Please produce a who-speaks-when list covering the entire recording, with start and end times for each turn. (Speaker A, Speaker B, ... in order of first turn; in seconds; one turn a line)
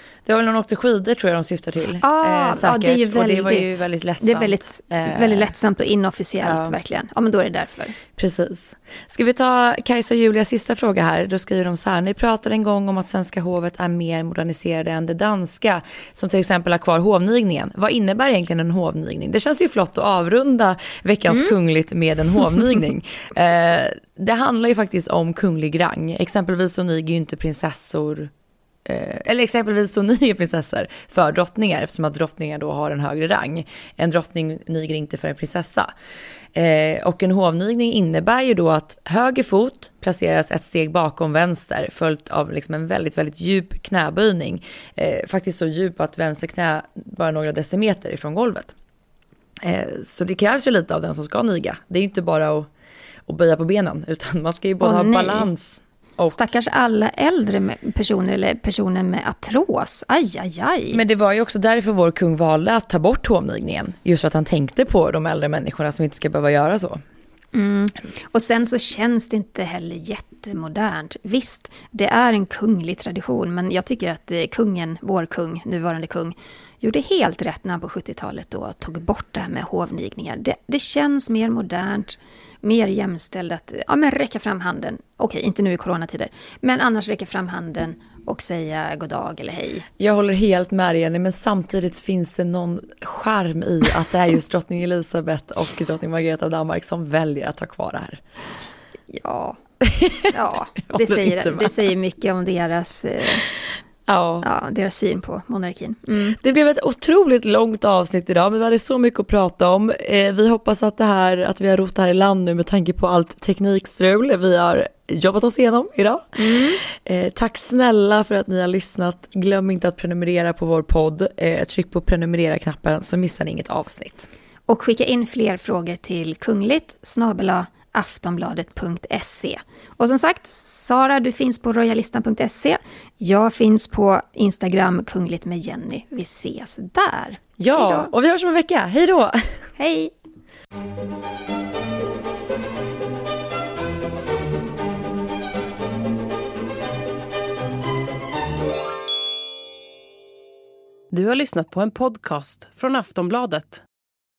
Speaker A: 0.2-5.5
Speaker B: 2.0-8.0
Speaker A: 6.4-6.8
Speaker A: 8.2-28.3
Speaker A: 28.9-35.9
Speaker A: 36.5-48.7
Speaker A: 49.6-52.7
Speaker A: 53.3-56.4
Speaker B: 54.8-55.5
Speaker B: 56.3-61.0
Speaker A: 60.9-67.0
Speaker B: 67.5-89.9
Speaker A: 90.0-98.2
Speaker B: 99.1-99.6
Speaker A: 99.8-100.3
Speaker B: 100.3-103.5
Speaker A: 100.8-101.8
Speaker A: 104.1-104.5
Speaker B: 104.4-106.4
Speaker A: 106.4-124.3
Speaker B: 116.4-116.8
Speaker B: 124.7-138.1
Speaker A: 137.6-139.6
Speaker B: 139.8-140.1
Speaker C: 151.1-153.8